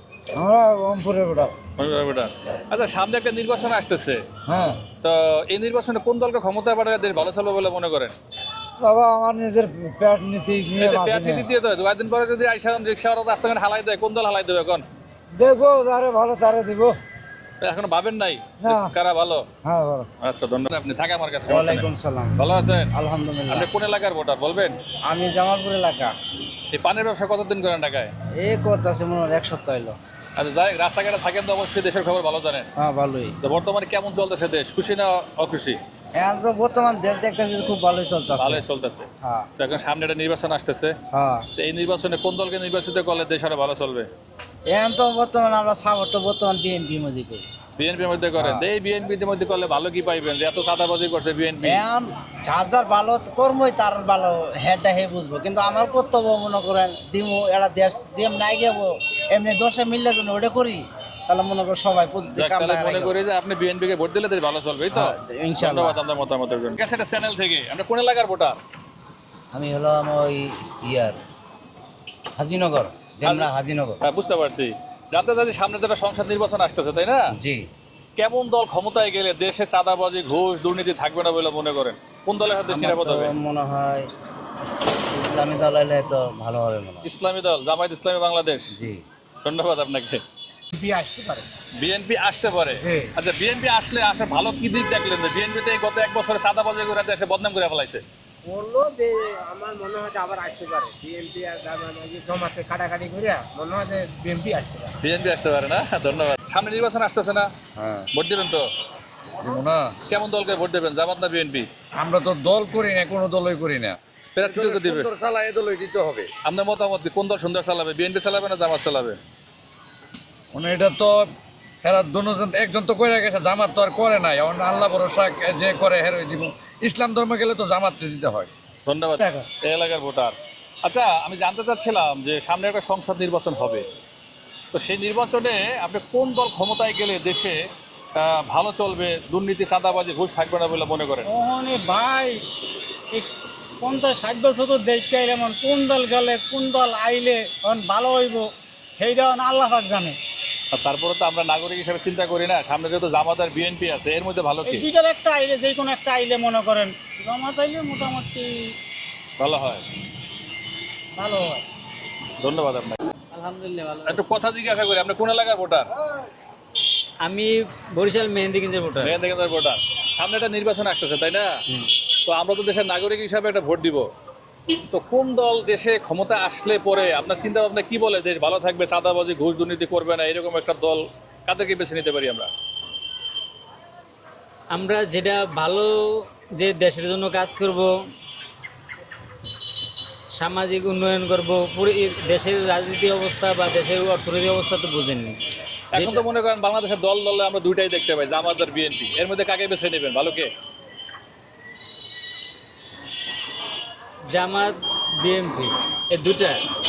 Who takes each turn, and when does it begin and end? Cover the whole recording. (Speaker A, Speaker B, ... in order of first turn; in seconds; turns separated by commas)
Speaker A: 0.3-1.5, Speaker B: 1.8-4.2, Speaker A: 4.5-4.7, Speaker B: 5.0-8.1, Speaker A: 8.8-11.5, Speaker B: 10.8-14.8, Speaker A: 15.3-16.9, Speaker B: 17.6-19.4, Speaker A: 18.6-18.9, Speaker A: 19.6-20.1, Speaker B: 20.2-22.9, Speaker C: 21.4-22.3, Speaker C: 22.9-23.7, Speaker B: 23.5-24.8, Speaker C: 25.0-26.1, Speaker B: 26.7-28.1, Speaker C: 28.3-30.0, Speaker B: 30.4-32.7, Speaker C: 32.8-33.3, Speaker B: 33.4-35.8, Speaker C: 36.1-38.6, Speaker B: 38.4-39.0, Speaker C: 39.2-39.5, Speaker B: 39.6-40.9, Speaker C: 41.1-41.5, Speaker B: 41.5-44.1, Speaker C: 44.7-47.4, Speaker B: 47.8-51.8, Speaker C: 48.4-48.6, Speaker C: 51.6-63.1, Speaker B: 62.3-68.6, Speaker C: 64.9-66.0, Speaker C: 69.5-71.2, Speaker C: 72.4-74.0, Speaker B: 73.2-73.5, Speaker B: 74.0-77.2, Speaker C: 77.3-77.6, Speaker B: 78.2-83.3, Speaker C: 82.7-84.1, Speaker C: 85.1-87.0, Speaker B: 87.0-88.7, Speaker C: 88.7-89.0, Speaker B: 89.4-90.2, Speaker D: 90.8-91.4, Speaker B: 91.8-98.0, Speaker D: 98.4-104.9, Speaker B: 105.0-107.5, Speaker E: 107.8-108.1, Speaker B: 108.1-108.7, Speaker E: 109.4-109.9, Speaker B: 110.1-111.7, Speaker E: 112.0-116.3, Speaker B: 114.3-115.1, Speaker B: 116.4-119.2, Speaker E: 120.5-121.2, Speaker E: 121.8-128.5, Speaker B: 128.8-133.8, Speaker F: 129.2-129.4, Speaker B: 134.7-137.6, Speaker B: 138.2-141.3, Speaker F: 141.2-142.4, Speaker F: 143.8-148.4, Speaker F: 149.0-150.1, Speaker B: 150.7-154.9, Speaker F: 154.6-158.7, Speaker B: 159.4-159.8, Speaker F: 161.2-161.6, Speaker B: 162.4-163.0, Speaker G: 163.3-164.3, Speaker B: 164.1-165.9, Speaker G: 167.2-169.1, Speaker B: 169.0-171.6, Speaker B: 172.2-174.1, Speaker B: 174.9-182.5, Speaker G: 184.7-185.9, Speaker G: 186.6-187.9, Speaker G: 190.3-195.4, Speaker B: 195.9-200.5, Speaker G: 204.3-206.6